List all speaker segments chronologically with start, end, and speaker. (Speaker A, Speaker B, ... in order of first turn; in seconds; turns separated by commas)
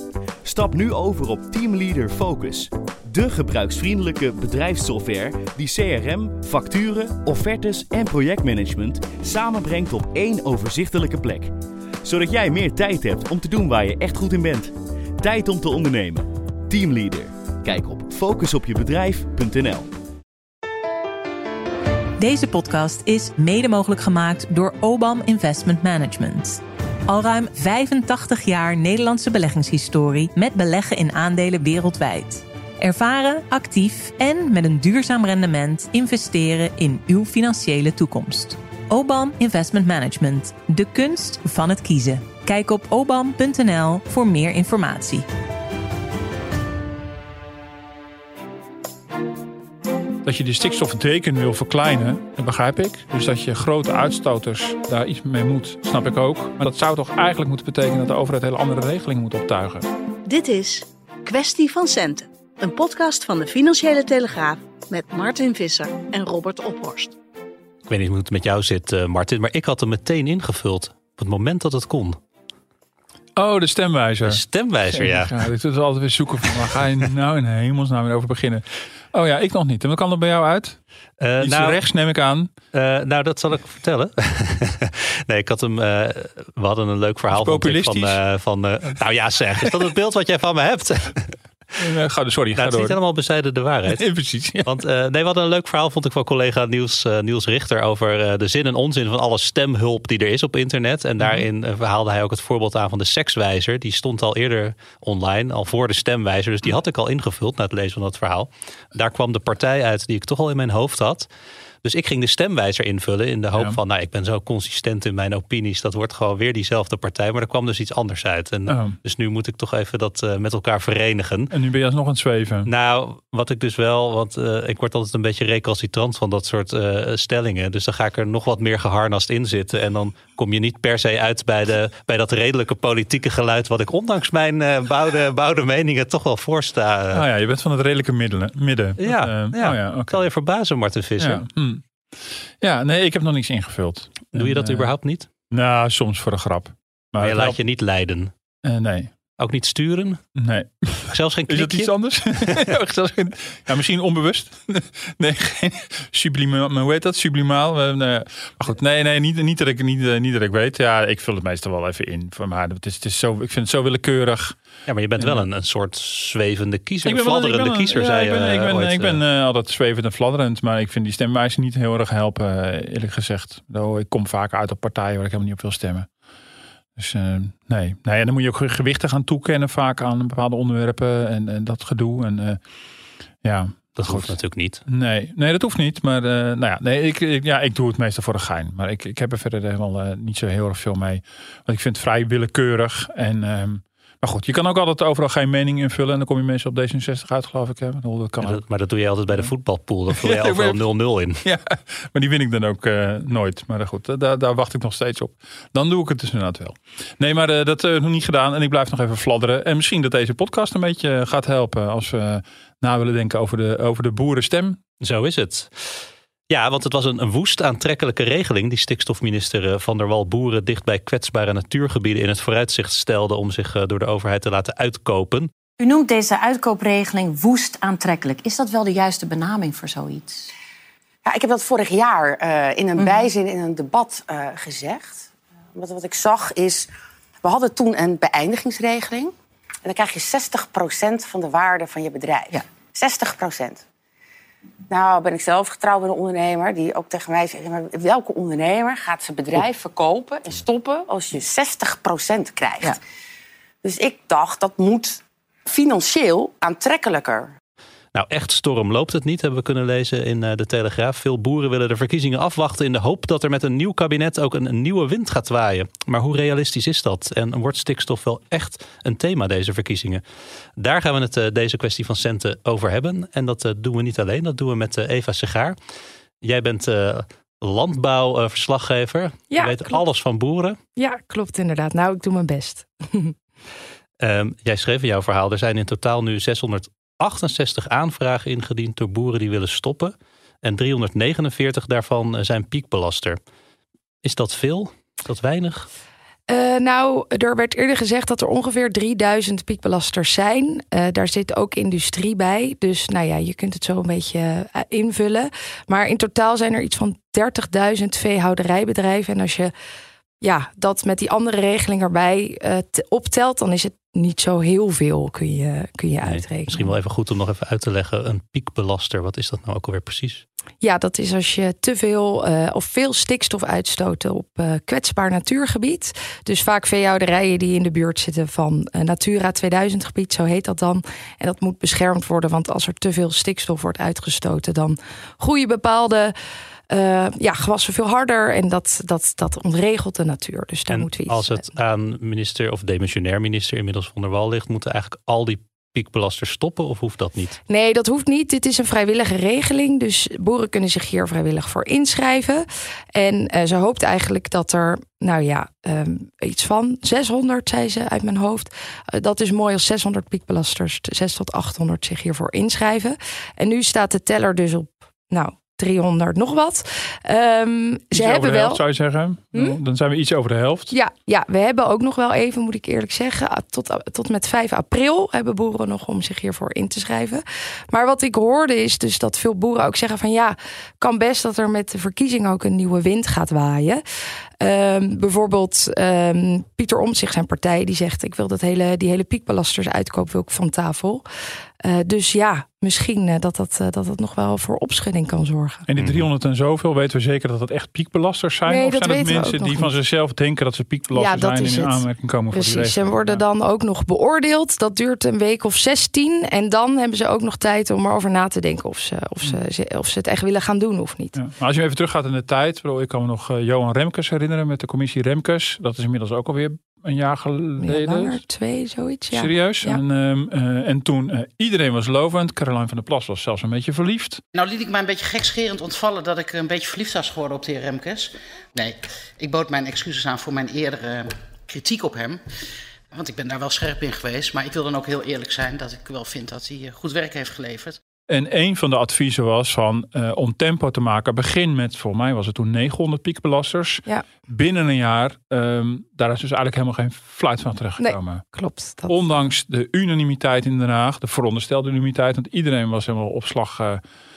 Speaker A: 0.4-19.9, Speaker B: 22.2-45.2, Speaker C: 50.2-59.9, Speaker D: 60.2-67.1, Speaker E: 67.9-72.2, Speaker C: 73.4-80.8, Speaker E: 74.2-75.4, Speaker E: 81.2-81.8, Speaker C: 81.4-82.5, Speaker E: 82.7-91.4, Speaker C: 87.3-88.2, Speaker C: 91.8-93.0, Speaker E: 92.5-94.0, Speaker C: 93.9-94.8, Speaker E: 94.7-111.3, Speaker E: 111.8-121.5, Speaker C: 118.7-119.0, Speaker C: 121.5-122.7, Speaker E: 122.7-137.2, Speaker C: 137.1-140.2, Speaker E: 139.0-141.4, Speaker C: 141.2-144.9, Speaker E: 144.3-145.3, Speaker C: 145.5-147.6, Speaker E: 147.2-148.3, Speaker C: 148.6-149.1, Speaker E: 149.4-150.2, Speaker C: 150.3-164.6, Speaker E: 151.1-152.7, Speaker E: 164.9-169.2, Speaker C: 165.2-165.5, Speaker C: 167.0-176.1, Speaker C: 177.0-182.6, Speaker C: 183.4-198.6, Speaker E: 184.0-184.8, Speaker E: 198.4-201.4, Speaker C: 200.1-200.8, Speaker C: 201.4-214.8, Speaker E: 215.0-225.5, Speaker F: 225.8-230.5, Speaker G: 231.2-236.9, Speaker G: 237.4-239.3, Speaker G: 239.8-243.8, Speaker G: 244.9-253.0, Speaker G: 253.8-257.5, Speaker E: 258.1-270.2, Speaker E: 270.8-275.8, Speaker E: 276.4-280.8, Speaker H: 279.5-280.0, Speaker H: 281.0-283.3, Speaker E: 284.2-293.4, Speaker E: 294.2-295.9, Speaker H: 296.5-309.7, Speaker H: 310.4-316.9, Speaker E: 316.2-320.4, Speaker H: 320.8-336.3, Speaker H: 336.9-341.6, Speaker E: 340.9-347.6, Speaker H: 347.7-368.8, Speaker C: 368.1-370.9, Speaker H: 370.9-384.0, Speaker H: 384.6-391.2, Speaker H: 391.8-395.8, Speaker C: 395.9-403.4, Speaker E: 396.0-396.2, Speaker H: 398.7-399.9, Speaker H: 401.1-411.4, Speaker C: 411.3-418.4, Speaker H: 417.8-420.0, Speaker C: 419.3-424.4, Speaker I: 424.5-432.4, Speaker I: 433.1-438.0, Speaker C: 438.3-448.4, Speaker H: 448.0-449.3, Speaker C: 449.1-454.0